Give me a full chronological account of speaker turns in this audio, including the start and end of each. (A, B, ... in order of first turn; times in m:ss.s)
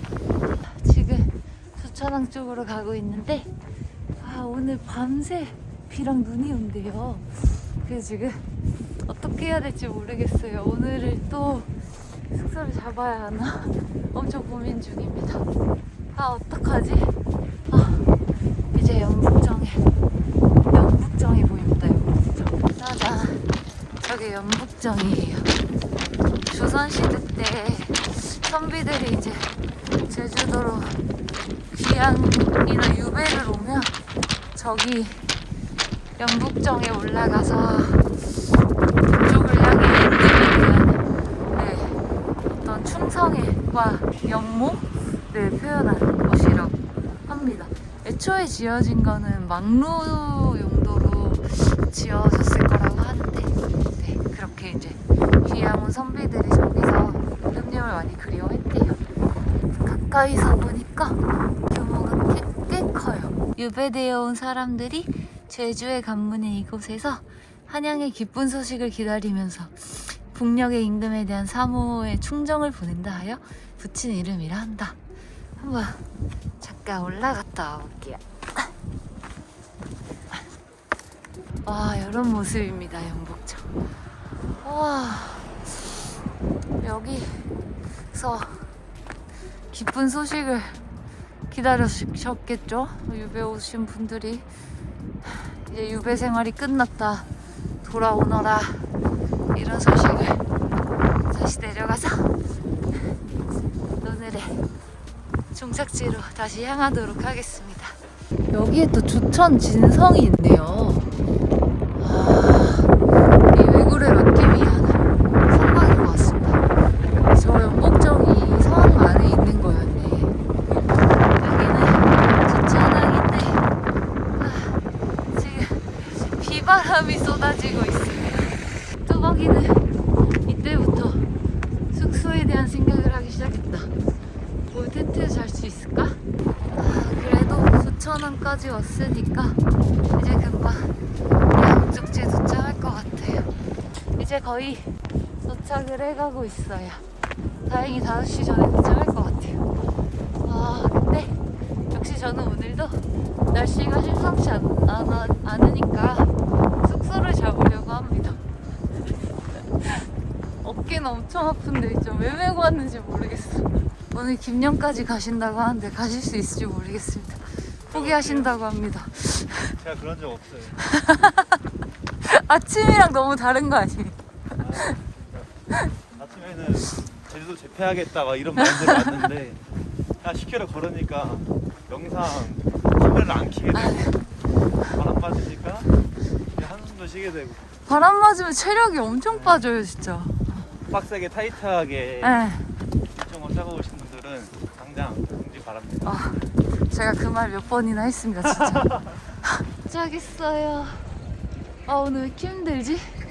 0:00.7-0:03.5 A
0:04.2-0:07.3 A
0:07.8-0:08.4 A
0:09.1-0:11.7 A
0:12.3-0:15.4 A
0:16.1-0:17.1 A
0:17.7-0:18.1 A
0:18.7-0:19.8 A
0:20.7-0:23.4 A
0:24.0-0:25.5 A
0:26.5-0:29.5 A
0:30.0-0:31.0 A
0:31.7-0:33.9 A
0:34.5-0:35.2 A
0:36.2-0:38.2 A
0:39.0-0:42.0 A
0:42.6-0:59.0 A
0:59.8-1:15.0 A
1:15.6-1:16.0 A
1:16.6-1:18.7 A
1:21.6-1:23.7 A
1:24.6-1:25.5 A
1:26.8-1:27.4 A
1:28.1-1:28.7 A
1:29.7-1:30.8 A
1:31.5-1:34.5 A
1:35.2-1:37.3 A
1:37.8-1:38.8 A
1:39.5-1:40.4 A
1:41.3-1:42.3 A
1:44.0-1:44.6 A
1:45.5-1:48.0 A
1:48.5-1:51.0 A
1:52.0-1:52.9 A
1:53.4-1:56.6 A
1:57.2-2:00.3 A
2:01.4-2:03.6 A
2:04.4-2:04.8 A
2:05.3-2:09.8 A
2:10.4-2:11.3 A
2:11.9-2:13.9 A
2:14.7-2:16.2 A
2:16.7-2:19.6 A
2:20.2-2:20.9 A
2:21.5-2:23.5 A
2:24.2-2:24.9 A
2:25.4-2:27.0 A
2:27.6-2:29.6 A
2:30.4-2:31.4 A
2:31.9-2:38.4 A
2:39.6-2:40.1 A
2:40.6-2:49.8 A
2:47.9-2:48.5 B
2:49.8-2:50.8 B
2:50.8-2:51.6 A
2:52.2-2:54.2 A
2:54.6-2:55.5 B
2:56.2-2:59.6 B
2:58.6-2:59.2 A
3:00.2-3:04.1 B
3:03.7-3:04.2 A
3:04.9-3:05.9 B
3:06.6-3:07.6 B
3:07.8-3:10.6 A
3:09.3-3:09.6 B
3:10.9-3:12.4 B
3:12.2-3:12.7 A
3:13.1-3:16.3 B
3:16.0-3:18.9 A
3:18.5-3:19.2 B
3:19.4-3:21.0 A
3:21.8-3:23.0 A